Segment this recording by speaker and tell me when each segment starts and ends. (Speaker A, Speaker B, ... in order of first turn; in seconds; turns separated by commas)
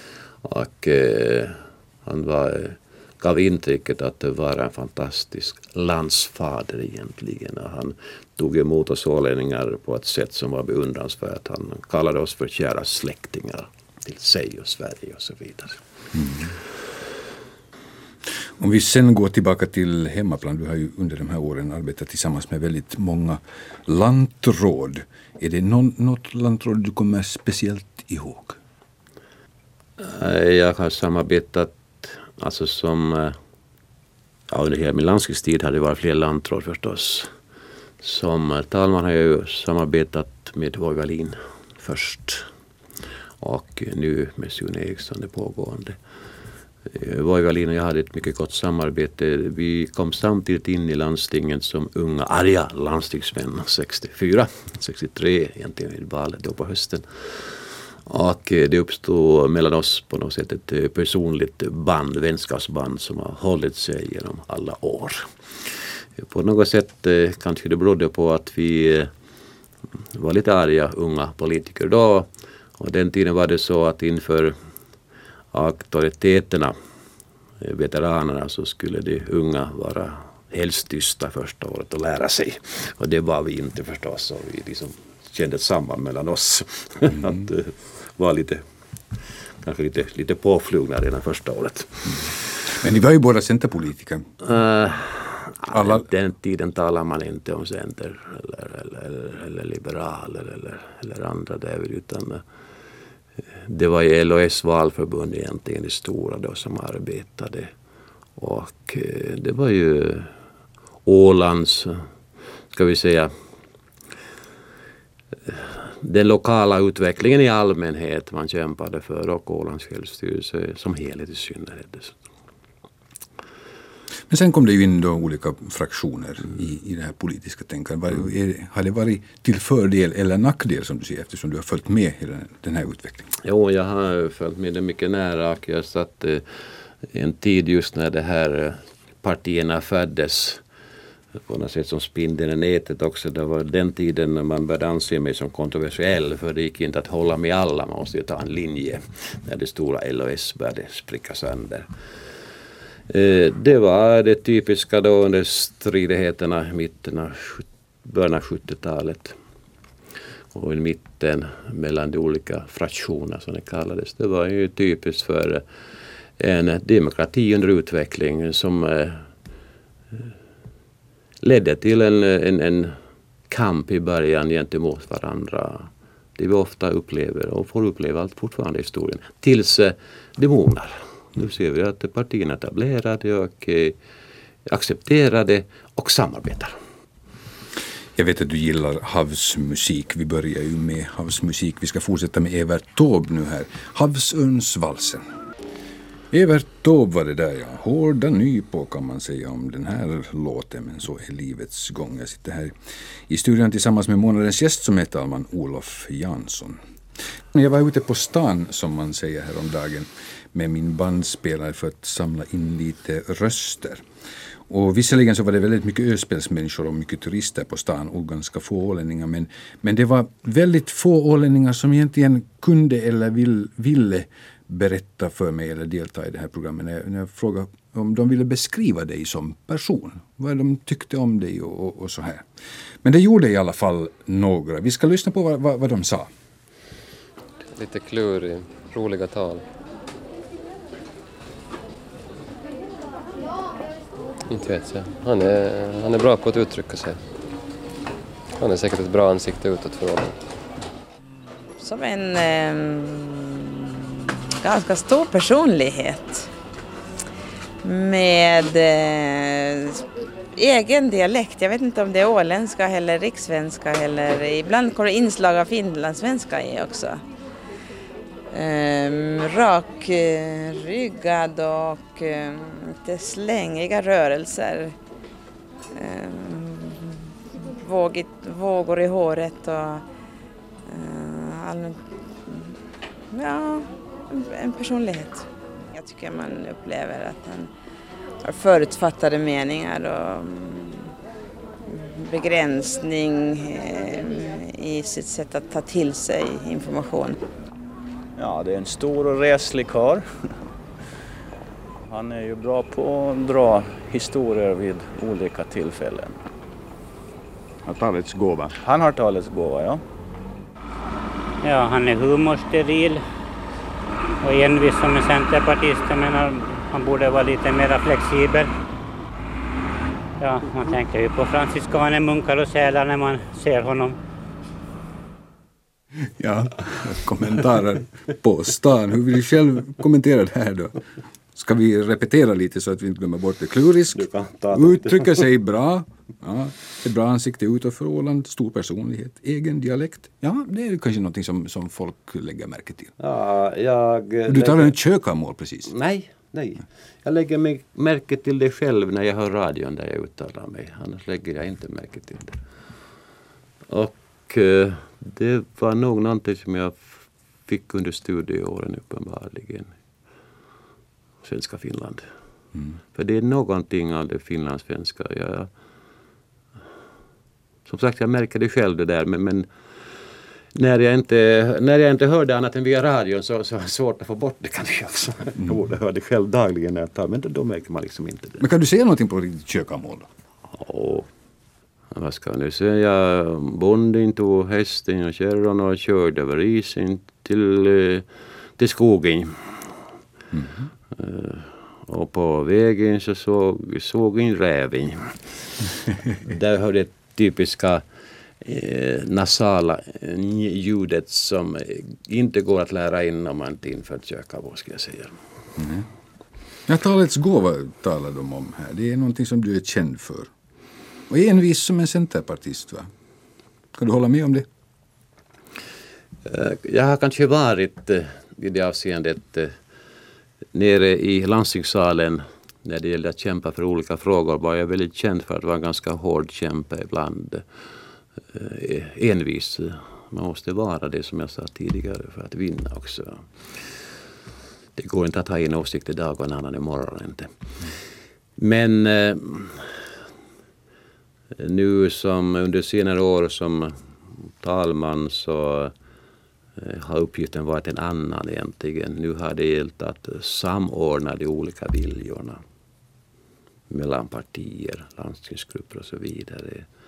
Speaker A: 0.4-15.8, Speaker B: 16.2-16.5, Speaker B: 18.6-28.6, Speaker A: 30.0-33.3, Speaker A: 34.5-37.3, Speaker A: 38.0-42.5, Speaker A: 43.4-46.0, Speaker A: 46.9-65.2, Speaker A: 66.2-69.1, Speaker A: 70.1-72.3, Speaker A: 72.8-74.5, Speaker A: 75.5-76.7, Speaker A: 77.6-88.6, Speaker A: 89.6-92.4, Speaker B: 92.7-94.2, Speaker A: 94.4-102.4, Speaker B: 95.7-96.0, Speaker A: 103.7-107.7, Speaker A: 108.4-110.3, Speaker A: 111.0-112.0, Speaker A: 112.7-113.3, Speaker A: 115.5-122.2, Speaker B: 124.3-133.3, Speaker A: 133.4-136.4, Speaker A: 137.1-140.6, Speaker A: 141.5-151.9, Speaker A: 153.1-159.3, Speaker A: 160.5-165.6, Speaker A: 166.4-169.2, Speaker A: 171.4-172.9, Speaker A: 173.5-183.9, Speaker A: 184.7-186.7, Speaker B: 188.1-195.2, Speaker B: 196.3-202.7, Speaker B: 203.3-206.8, Speaker B: 207.5-214.0, Speaker B: 214.7-232.4, Speaker B: 233.0-236.3, Speaker C: 237.7-239.7, Speaker C: 244.5-247.2, Speaker C: 248.6-250.4, Speaker D: 251.8-256.5, Speaker D: 257.8-260.0, Speaker D: 260.5-267.2, Speaker D: 268.5-274.9, Speaker D: 275.9-280.0, Speaker D: 280.9-282.8, Speaker D: 283.3-287.7, Speaker D: 288.4-291.1, Speaker D: 291.9-297.4, Speaker E: 298.4-300.5, Speaker E: 302.1-306.4, Speaker E: 307.9-310.0, Speaker B: 308.1-308.7, Speaker F: 311.6-313.2, Speaker F: 314.4-318.7, Speaker F: 320.4-324.1, Speaker B: 326.4-330.9, Speaker B: 331.5-343.1, Speaker A: 334.1-335.4, Speaker A: 343.2-344.9, Speaker B: 344.5-345.9, Speaker A: 345.8-352.6, Speaker A: 353.9-359.9, Speaker A: 361.4-362.2, Speaker A: 363.1-365.7, Speaker A: 367.9-369.7, Speaker A: 370.7-378.6, Speaker B: 378.6-380.2, Speaker A: 380.7-381.3, Speaker A: 382.1-388.2, Speaker A: 388.8-389.7, Speaker A: 391.1-395.7, Speaker A: 396.4-398.0, Speaker A: 398.6-405.4, Speaker B: 405.8-406.1, Speaker B: 406.9-410.5, Speaker B: 411.3-413.1, Speaker B: 413.9-414.7, Speaker A: 416.4-419.7, Speaker A: 420.7-427.6, Speaker A: 428.5-433.4, Speaker A: 434.9-437.5, Speaker A: 438.6-440.0, Speaker A: 441.6-443.9, Speaker A: 444.4-445.9, Speaker A: 446.8-452.6, Speaker A: 453.9-456.9